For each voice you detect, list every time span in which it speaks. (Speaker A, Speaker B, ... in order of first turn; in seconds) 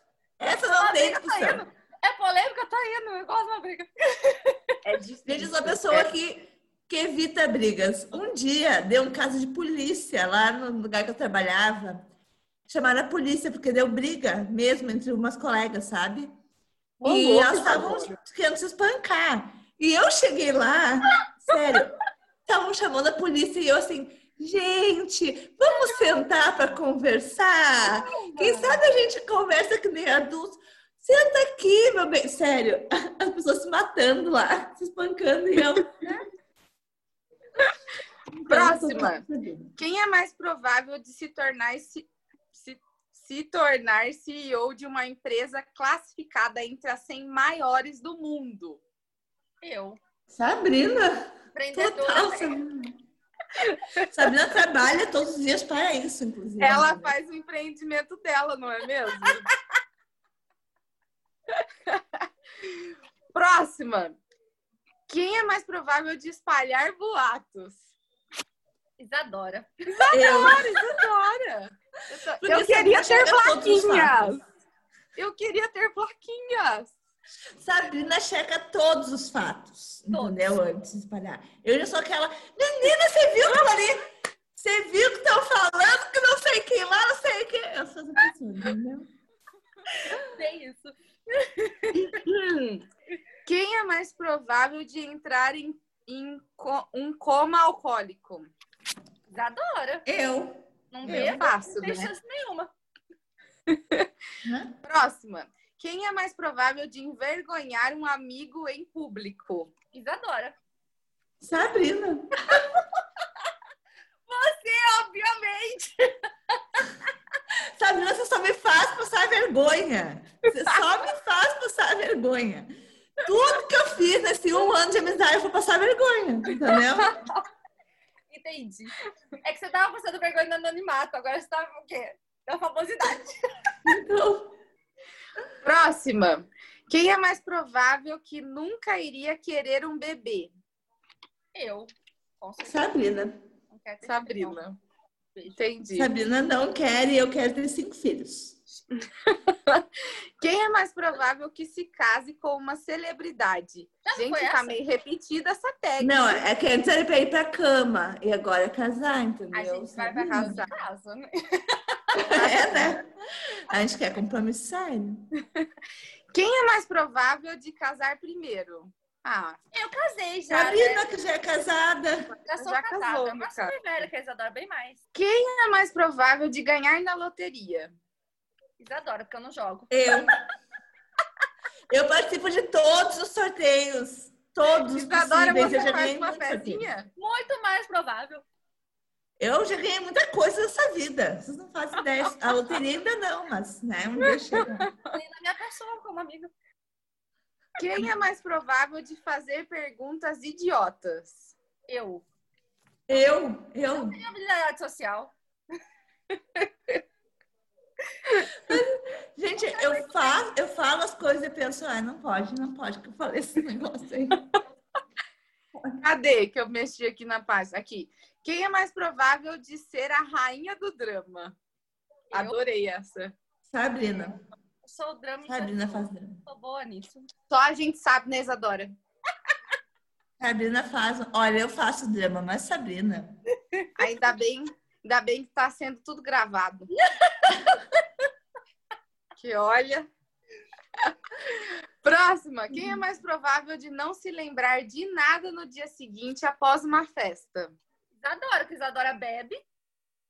Speaker A: 0.4-1.6, 5.3-12.1, 12.7-16.3, 17.0-21.9, 22.5-35.9, 38.3-39.7, 50.3-53.0, 54.1-57.1, 70.1-70.8, 72.4-74.4, 77.6-89.1, 100.1-101.4, 104.4-104.7, 111.4-112.6, 117.8-122.7, 123.2-127.1, 133.8-134.5, 142.6-143.3, 145.9-148.6, 156.0-160.6, 162.2-163.1, 163.7-165.3, 170.5-172.3, 179.9-180.3, 181.9-186.9, 189.4-194.9, 203.1-204.2, 208.6-214.4, 223.7-224.4, 225.5-226.4, 230.4-233.4
Speaker B: 0.5-4.6, 25.7-26.0, 27.8-28.8, 36.0-36.3, 49.6-50.0, 51.5-52.6, 69.0-69.7, 80.1-80.6, 90.0-92.2, 99.3-100.1, 100.9-102.7, 109.9-110.6, 114.3-116.1, 127.0-127.4, 128.3-133.4, 141.6-143.0, 143.7-144.6, 145.3-145.6, 154.0-154.8, 159.5-162.5, 169.7-171.1, 172.5-175.0, 178.8-179.9, 187.2-188.4, 195.1-196.5, 201.9-202.2, 203.9-205.3, 209.8-210.4, 222.3-222.6, 224.8-227.3, 248.2-249.6
Speaker C: 4.8-6.1, 17.0-18.1, 38.5-39.2, 39.8-48.8, 53.6-54.1, 56.6-59.5, 61.5-62.8, 63.3-64.2, 65.1-67.9, 70.0-74.4, 75.2-77.0, 92.0-92.8, 93.5-98.5, 101.1-102.1, 103.7-104.1, 104.8-109.7, 135.6-140.5, 144.0-144.8, 145.6-146.1, 149.0-156.4, 160.3-160.7, 162.4-162.9, 166.3-169.6, 172.6-173.8, 175.2-177.9, 184.9-187.1, 194.2-195.1, 197.8-201.5, 216.0-221.6, 222.3-223.4, 227.5-228.9, 234.0-236.9, 239.4-240.1, 241.1-247.8